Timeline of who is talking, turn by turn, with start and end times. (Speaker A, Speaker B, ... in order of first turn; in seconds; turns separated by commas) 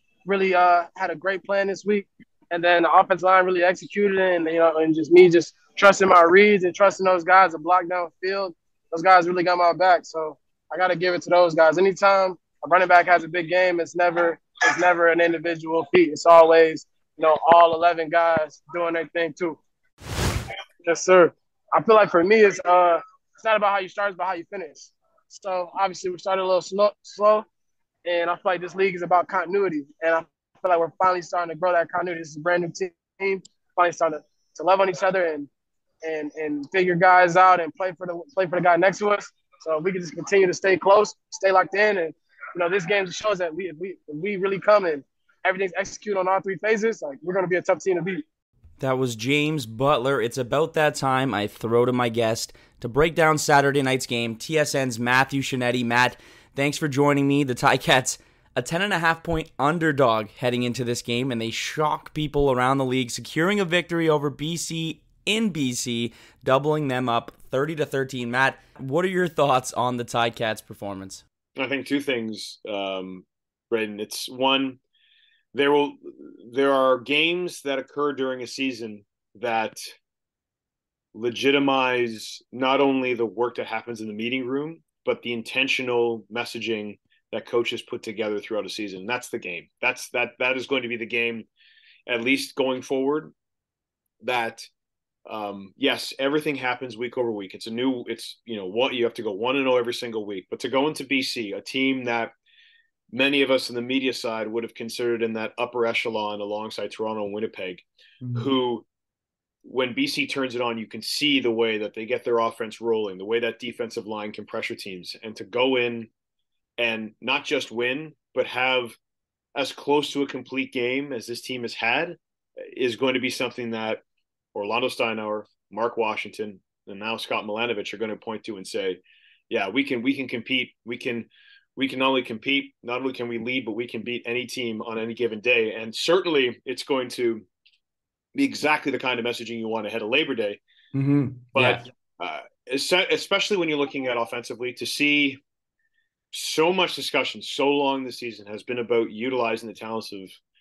Speaker A: 0.3-19.6, Speaker A: 20.8-27.5, Speaker A: 28.1-35.5, Speaker A: 36.0-48.2, Speaker B: 48.8-71.2, Speaker C: 71.6-74.8, Speaker C: 75.5-79.9, Speaker C: 81.1-91.5, Speaker C: 92.1-93.3, Speaker C: 94.2-94.7, Speaker C: 95.3-102.3, Speaker C: 103.1-108.8, Speaker B: 108.2-108.5, Speaker C: 109.7-116.1, Speaker C: 116.8-119.0, Speaker C: 119.5-124.0, Speaker C: 124.5-137.5, Speaker C: 138.3-140.6, Speaker B: 140.9-141.8, Speaker C: 141.5-145.4, Speaker C: 146.3-150.3